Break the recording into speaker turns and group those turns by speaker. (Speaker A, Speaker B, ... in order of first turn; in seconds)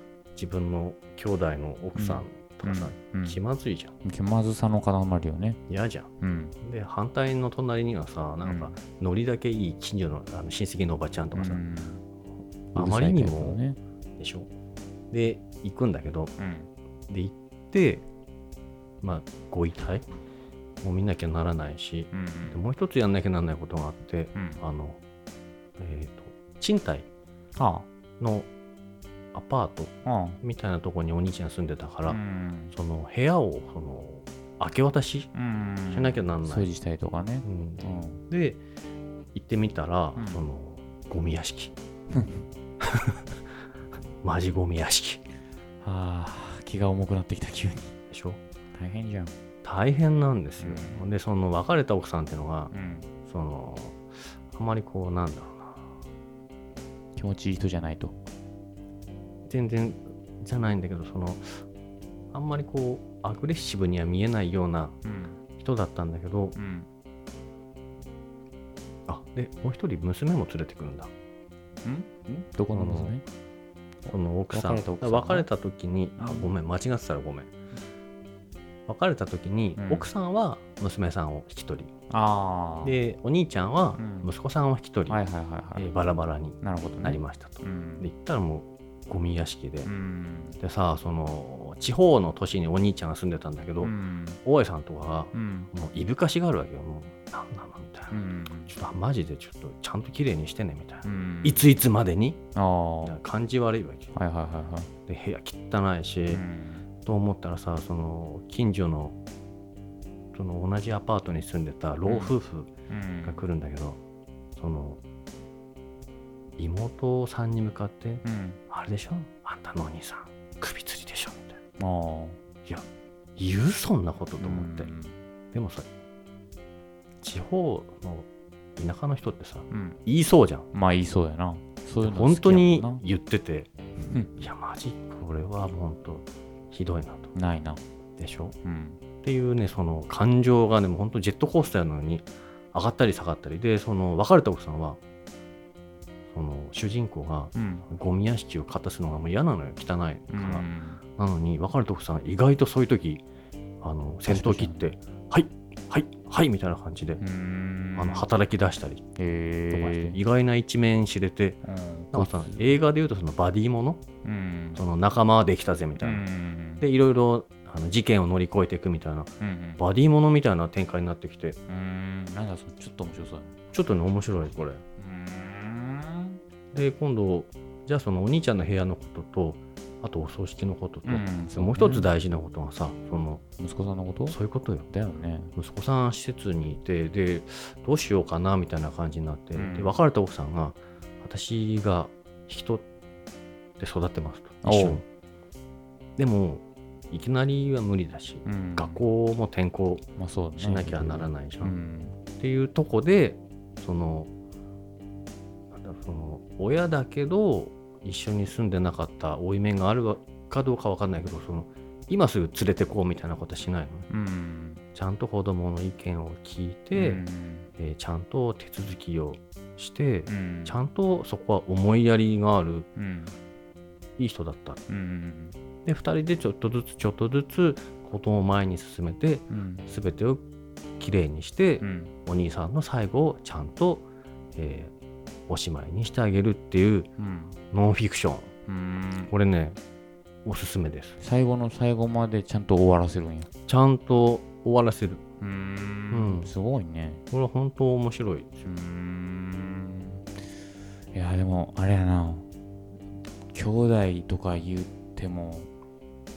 Speaker A: 0.3-3.9, 5.7-6.1, 6.6-11.6, 12.7-13.6, 14.2-14.5, 15.1-16.3, 17.1-18.1, 19.0-20.1, 20.8-25.0, 25.8-27.1, 28.2-28.5, 29.3-29.9, 30.4-32.2, 32.7-35.3, 35.9-36.7, 37.4-38.6, 39.3-41.7, 42.8-43.2, 44.2-45.2, 48.1-48.4, 49.6-52.7, 53.2-55.8, 59.5-61.6, 62.3-65.0, 65.6-66.5, 69.1-71.1, 72.7-73.1, 74.1-77.5, 78.9-81.9, 82.8-85.2, 85.8-89.9, 90.6-93.9, 94.4-98.2, 98.7-102.4, 103.0-104.1, 105.1-106.4, 107.0-109.2, 110.3-112.7, 113.2-114.0, 114.5-115.0, 116.6-121.6, 122.7-124.9, 125.5-125.9, 127.2-130.7, 132.0-133.7, 134.4-137.3, 138.2-138.5, 139.2-145.0, 146.3-153.2, 153.8-157.2, 157.9-159.0, 159.7-161.6, 162.1-164.0, 164.8-166.2, 166.8-171.6, 173.7-174.8, 176.7-183.4, 184.3-184.9, 185.6-192.8, 193.8-195.0, 196.2-200.0, 200.6-201.7, 202.3-204.3, 205.7-214.1, 214.9-217.2, 217.8-222.9, 224.2-224.8, 225.8-230.4, 231.0-234.9, 235.5-237.1, 237.7-238.5, 239.3-239.8, 240.4-241.2, 243.7-245.2, 246.1-246.5, 247.3-248.7
Speaker B: 1.9-3.4, 4.0-5.6, 6.2-6.5, 8.4-8.8, 11.3-12.0, 12.7-13.8, 16.4-16.7, 22.1-22.6, 24.3-24.6, 27.5-27.9, 30.0-30.4, 32.1-32.7, 35.3-38.2, 40.1-40.4, 42.1-42.4, 45.8-47.9, 48.7-49.3, 50.6-51.0, 52.7-53.1, 57.1-58.2, 65.0-65.4, 66.5-66.9, 71.8-73.2, 74.0-75.5, 76.2-76.5, 79.8-80.1, 82.1-83.0, 84.0-84.3, 85.1-86.0, 86.6-88.1, 89.8-90.6, 93.8-94.4, 95.3-95.7, 98.1-98.7, 101.0-101.7, 102.5-103.2, 104.1-104.9, 106.3-106.8, 112.1-112.3, 112.9-113.4, 118.2-118.6, 121.8-122.4, 124.4-125.2, 129.7-130.0, 130.7-133.0, 134.0-134.4, 137.3-137.8, 138.6-139.0, 147.5-147.9, 150.3-151.0, 154.2-154.9, 157.2-158.3, 159.2-160.2, 161.6-162.8, 164.2-164.8, 166.0-166.8, 169.4-169.8, 171.7-173.6, 175.0-176.4, 181.0-182.1, 183.6-184.4, 184.9-185.5, 189.5-190.0, 194.6-195.0, 198.4-199.0, 200.2-202.2, 214.1-214.8, 216.9-217.7, 220.3-220.8, 222.9-223.3, 224.9-225.6, 229.5-229.9, 231.8-232.1, 237.2-237.6, 238.7-239.3, 241.2-243.5, 245.4-247.2, 248.6-250.2, 251.1-252.4, 253.5-255.7